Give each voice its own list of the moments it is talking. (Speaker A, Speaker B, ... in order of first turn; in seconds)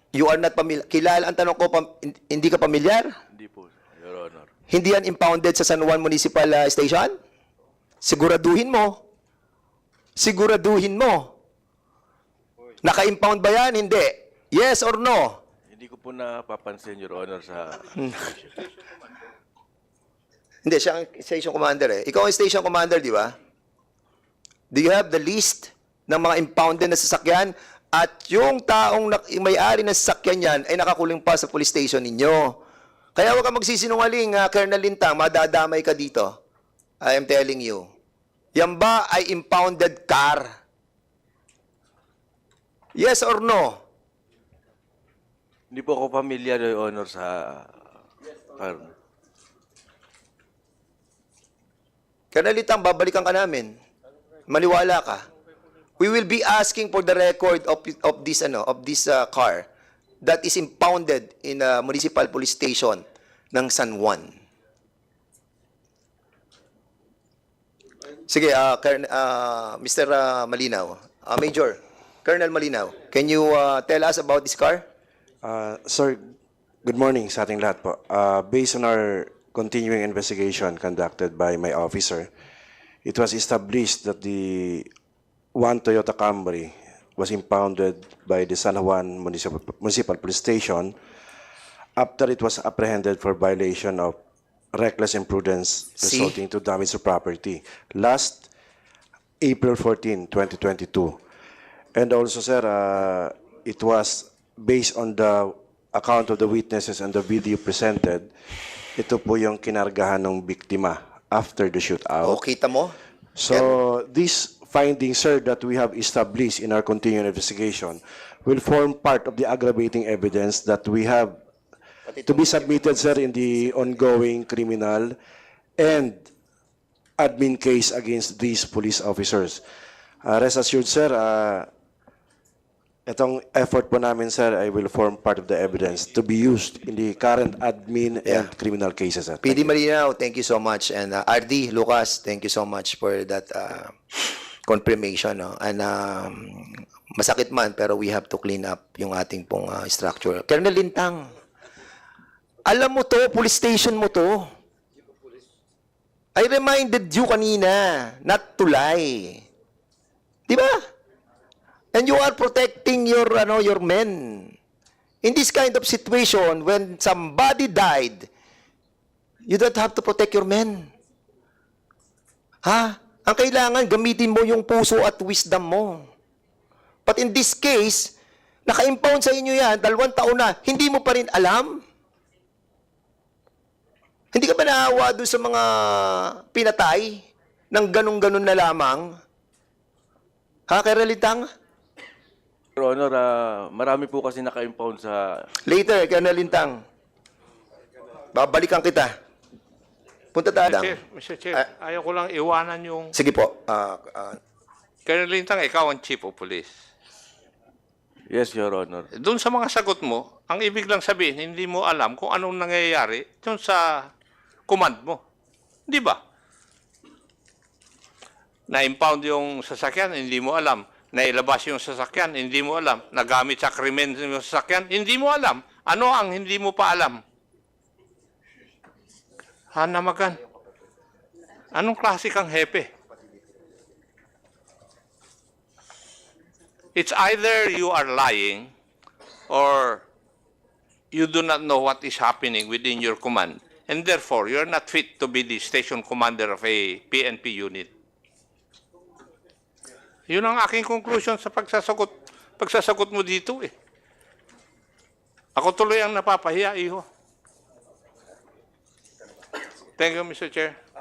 Speaker A: 0.1-3.1, 4.7-7.2, 8.0-9.0, 10.2-11.3, 12.8-15.4, 20.7-23.4, 24.7-32.6, 33.2-36.3, 37.0-37.9, 38.6-40.5, 43.0-43.8, 52.3-53.8, 54.5-55.2, 56.0-59.7, 60.2-64.3, 68.3-74.8, 96.0-96.4, 112.2-113.0, 122.1-123.3, 139.4-151.3, 152.7-154.5, 156.4-159.4, 160.5-160.8, 161.9-164.5, 165.2-168.3, 169.5-170.9, 172.7-176.1, 177.1-178.1, 178.7-181.8, 184.3-187.2, 187.7-189.1, 190.7-191.5, 195.7-196.8, 198.3-199.1, 200.3-201.0, 203.1-204.4
Speaker B: 3.3-4.5, 15.7-18.5, 45.7-47.6, 48.5-48.9, 192.8-195.3, 208.3-209.1
Speaker C: 75.4-76.3, 76.8-82.3, 83.0-84.9, 85.5-91.0, 92.0-94.2, 94.7-98.5, 99.4-101.2, 102.0-108.3, 109.0-112.4, 113.4-121.4, 122.2-125.2, 125.8-126.3, 127.2-129.6, 130.2-131.7, 133.1-139.7
Speaker D: 200.7-203.1, 205.1-206.7, 209.1-214.1, 214.7-215.2, 215.9-216.2, 218.7-227.2, 229.7-230.4, 231.7-232.9, 236.9-238.7, 239.5-240.0, 241.1-247.9, 250.3-253.7, 255.6-257.1, 260.0-260.8